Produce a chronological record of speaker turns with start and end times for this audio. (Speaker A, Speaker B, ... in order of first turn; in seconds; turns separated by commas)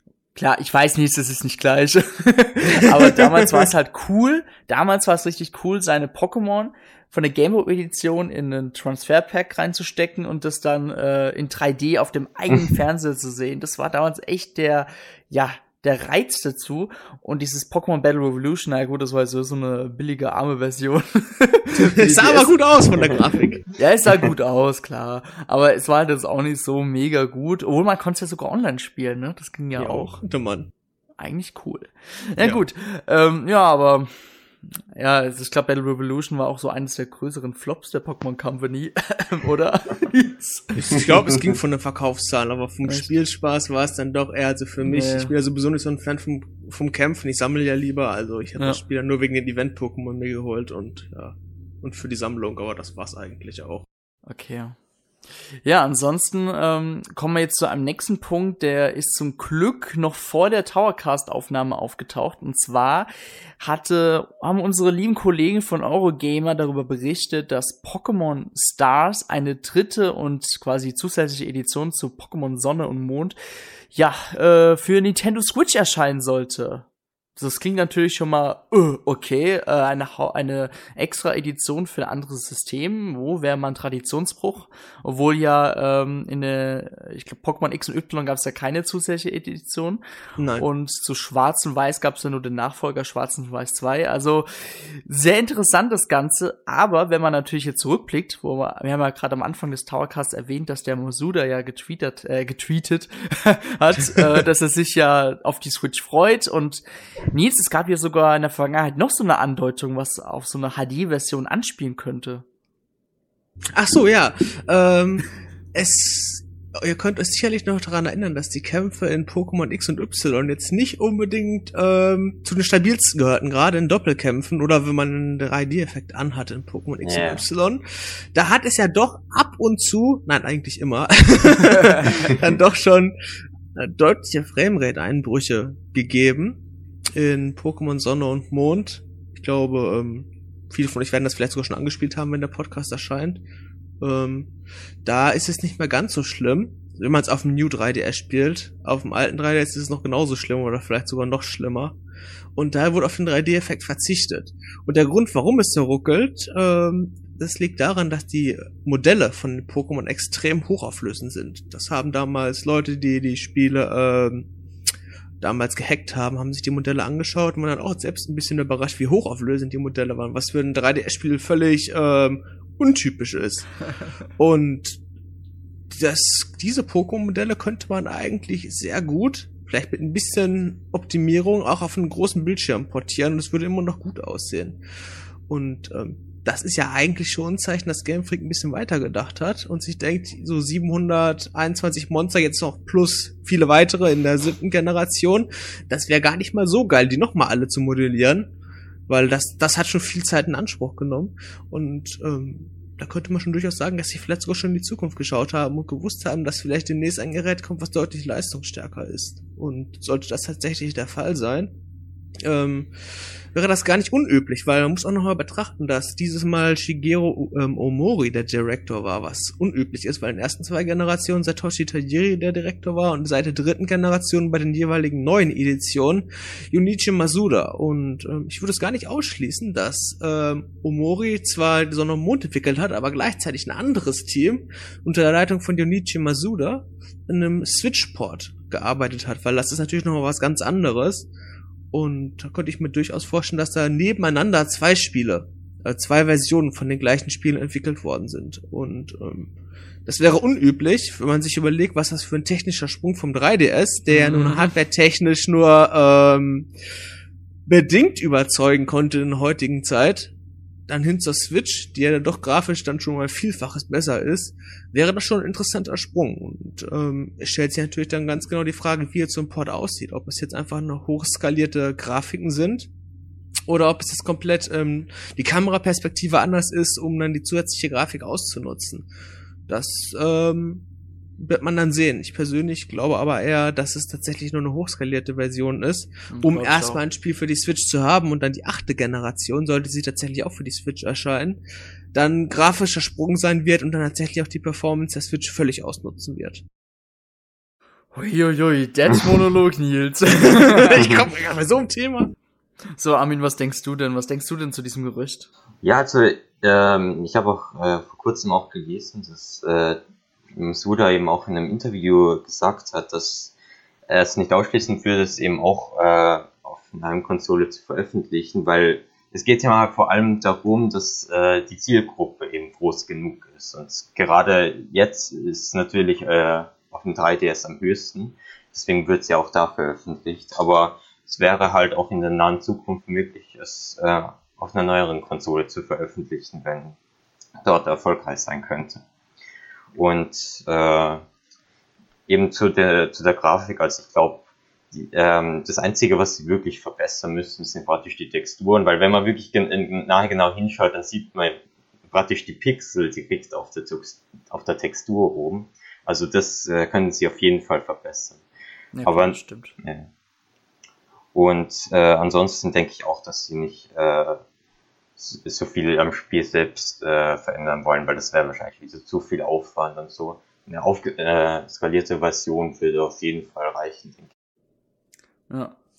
Speaker A: 0.3-22.6, Speaker B: 2.8-3.7, Speaker B: 21.8-23.7, Speaker A: 23.7-30.2, Speaker B: 29.8-30.7, Speaker A: 31.2-34.1, Speaker A: 34.9-40.9, Speaker B: 40.8-53.9, Speaker A: 44.8-45.3, Speaker A: 54.3-54.8, Speaker A: 55.6-73.4, Speaker A: 73.9-76.9, Speaker A: 77.4-90.0, Speaker B: 90.4-90.7, Speaker A: 90.6-112.5, Speaker B: 104.1-104.4, Speaker B: 113.7-133.2, Speaker C: 127.0-127.4, Speaker A: 131.8-132.1, Speaker B: 133.7-136.6, Speaker B: 137.1-143.4, Speaker B: 144.0-144.5, Speaker B: 145.0-152.0, Speaker B: 152.6-164.5, Speaker B: 165.4-175.0, Speaker B: 175.9-184.8, Speaker B: 185.5-198.5, Speaker B: 199.1-211.7, Speaker B: 212.4-241.3, Speaker B: 241.9-249.5, Speaker B: 250.1-256.7, Speaker A: 254.1-254.7, Speaker B: 257.7-260.3, Speaker B: 260.9-272.9, Speaker B: 273.7-279.1, Speaker B: 279.7-280.9, Speaker B: 281.4-291.6, Speaker A: 286.3-287.0, Speaker B: 292.1-296.6, Speaker A: 298.1-301.0, Speaker B: 300.4-302.3, Speaker C: 300.9-301.2, Speaker A: 303.0-305.5, Speaker C: 305.8-310.0, Speaker C: 310.5-313.5, Speaker C: 314.1-337.0, Speaker C: 337.6-339.0, Speaker C: 339.9-341.2, Speaker C: 342.3-351.6, Speaker C: 352.1-358.4, Speaker A: 358.9-359.7, Speaker C: 359.1-360.1, Speaker C: 361.3-364.4, Speaker C: 365.2-374.3, Speaker A: 375.5-375.8